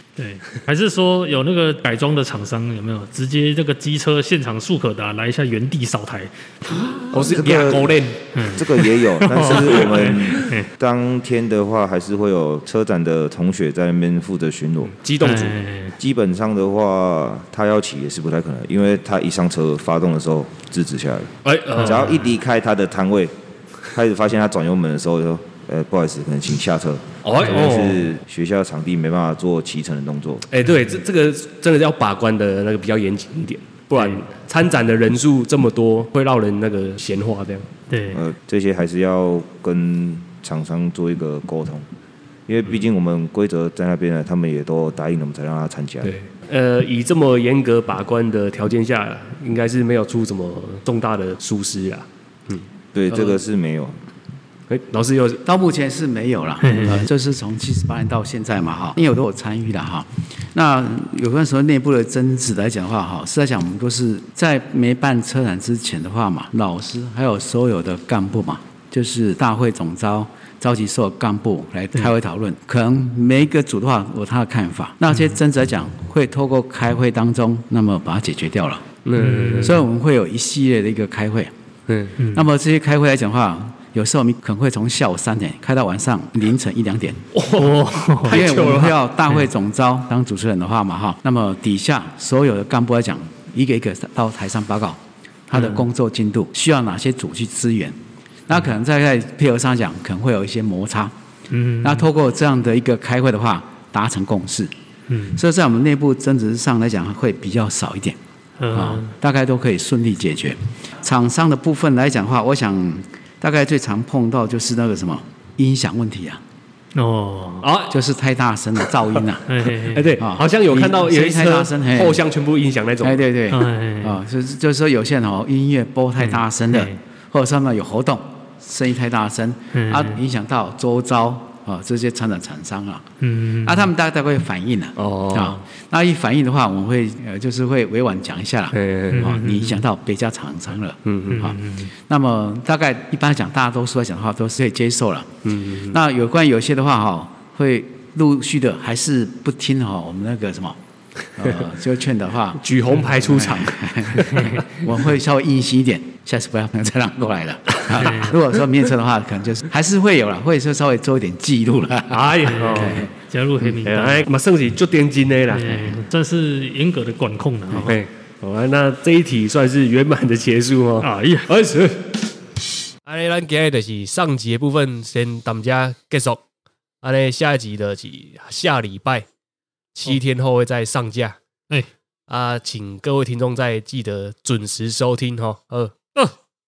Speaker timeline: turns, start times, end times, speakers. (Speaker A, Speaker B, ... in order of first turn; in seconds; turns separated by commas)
Speaker A: 0.2-7.4, Speaker B: 7.1-8.2, Speaker C: 7.2-8.0, Speaker A: 8.3-10.7, Speaker C: 8.5-14.9, Speaker B: 9.4-10.4, Speaker B: 15.0-15.6, Speaker A: 15.2-16.0, Speaker C: 16.0-23.3, Speaker B: 21.4-22.3, Speaker C: 23.9-30.5, Speaker B: 27.2-28.1, Speaker B: 30.5-37.7, Speaker A: 34.0-34.2, Speaker A: 37.9-38.2, Speaker C: 38.1-41.9, Speaker C: 42.5-46.1, Speaker B: 46.0-52.6, Speaker C: 52.9-53.9, Speaker B: 54.7-55.4, Speaker D: 55.5-78.8, Speaker A: 56.6-57.1, Speaker B: 79.0-79.9, Speaker A: 79.2-79.8, Speaker D: 79.6-81.5, Speaker B: 81.9-82.2, Speaker A: 82.2-82.5, Speaker D: 82.3-87.2, Speaker B: 87.3-89.4, Speaker A: 87.5-88.5, Speaker D: 88.3-98.0, Speaker D: 98.5-101.1, Speaker A: 101.5-102.1, Speaker D: 101.8-104.7, Speaker A: 105.1-105.4, Speaker D: 105.4-108.2, Speaker A: 108.6-109.1, Speaker D: 108.7-116.4, Speaker A: 117.0-117.7, Speaker B: 117.6-118.0, Speaker D: 117.9-119.6, Speaker A: 119.5-120.2, Speaker B: 119.8-123.3, Speaker D: 120.2-122.2, Speaker D: 123.0-133.1, Speaker A: 123.5-124.2, Speaker A: 126.2-127.0, Speaker A: 129.7-130.2, Speaker A: 133.2-133.9, Speaker D: 133.6-145.3, Speaker B: 135.0-135.6, Speaker B: 138.7-139.4, Speaker A: 139.1-139.8, Speaker B: 141.1-141.4, Speaker A: 141.3-141.9, Speaker B: 145.4-146.0, Speaker D: 145.9-150.8, Speaker D: 151.4-163.1, Speaker B: 152.6-154.6, Speaker A: 154.3-154.6, Speaker B: 157.9-158.2, Speaker A: 158.0-158.4, Speaker B: 162.1-163.1, Speaker A: 162.5-164.3, Speaker B: 163.6-165.9, Speaker A: 165.5-168.0, Speaker B: 167.8-172.2, Speaker A: 171.0-171.5, Speaker B: 173.0-176.4, Speaker B: 177.0-179.3, Speaker B: 179.9-181.4, Speaker B: 182.3-186.3